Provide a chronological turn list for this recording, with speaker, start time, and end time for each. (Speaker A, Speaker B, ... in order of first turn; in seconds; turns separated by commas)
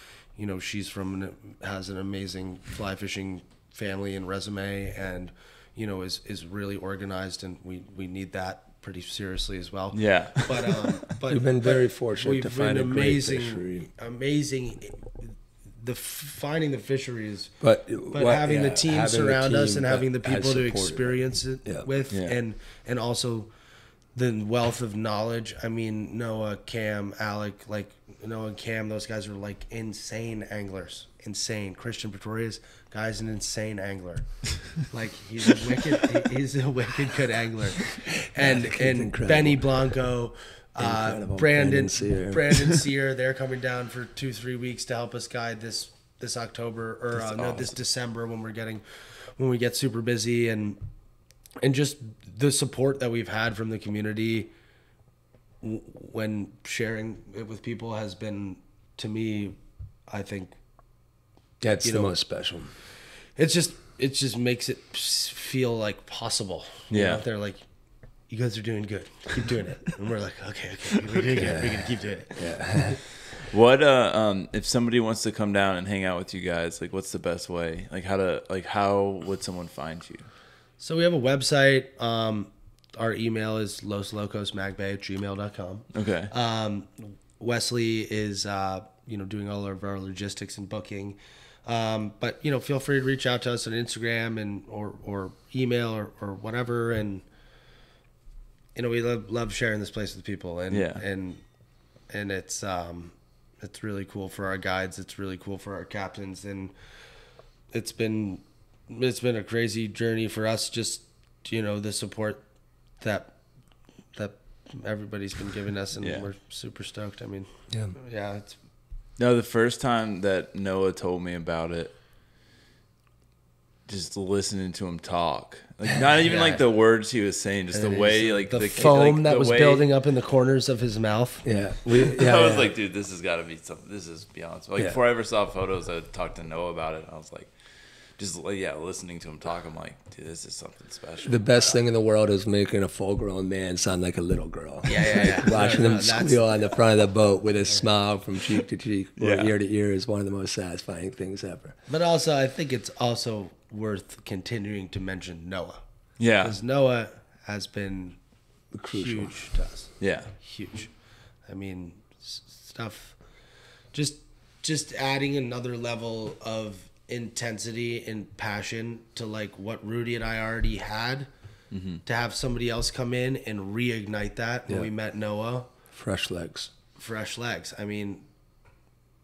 Speaker A: 0.4-17.6, Speaker B: 9.9-10.9, Speaker C: 11.3-13.9, Speaker C: 17.6-21.9, Speaker A: 18.1-23.5, Speaker B: 22.1-22.4, Speaker A: 24.1-50.8, Speaker C: 37.9-39.9, Speaker C: 40.8-42.5, Speaker B: 47.1-47.7, Speaker A: 51.6-54.5, Speaker A: 55.6-59.6, Speaker A: 60.1-60.6, Speaker C: 61.6-62.7, Speaker A: 61.8-62.2, Speaker A: 63.4-67.6, Speaker B: 66.9-67.2, Speaker A: 68.3-73.0, Speaker C: 71.4-71.8, Speaker C: 72.4-73.0, Speaker B: 73.3-80.3, Speaker A: 80.8-97.2, Speaker B: 85.9-86.3, Speaker A: 98.8-101.4, Speaker B: 100.7-101.0, Speaker A: 102.1-106.7, Speaker A: 107.7-112.4, Speaker A: 113.0-113.4, Speaker A: 114.1-118.6, Speaker B: 116.0-116.3, Speaker C: 117.7-118.0, Speaker B: 119.2-121.9, Speaker B: 123.9-129.9, Speaker A: 126.2-126.6, Speaker A: 127.7-131.5, Speaker C: 131.4-132.8, Speaker B: 132.1-137.6, Speaker B: 138.2-141.8, Speaker C: 141.2-151.8, Speaker A: 144.8-146.7, Speaker B: 149.2-149.5, Speaker A: 151.9-155.8, Speaker B: 156.2-156.6, Speaker A: 156.4-158.2, Speaker C: 158.7-159.3, Speaker A: 158.9-160.9, Speaker B: 160.0-160.3, Speaker A: 161.5-163.2, Speaker A: 163.9-171.3, Speaker B: 171.7-172.0, Speaker A: 172.1-175.7, Speaker C: 175.9-176.7, Speaker A: 176.9-178.3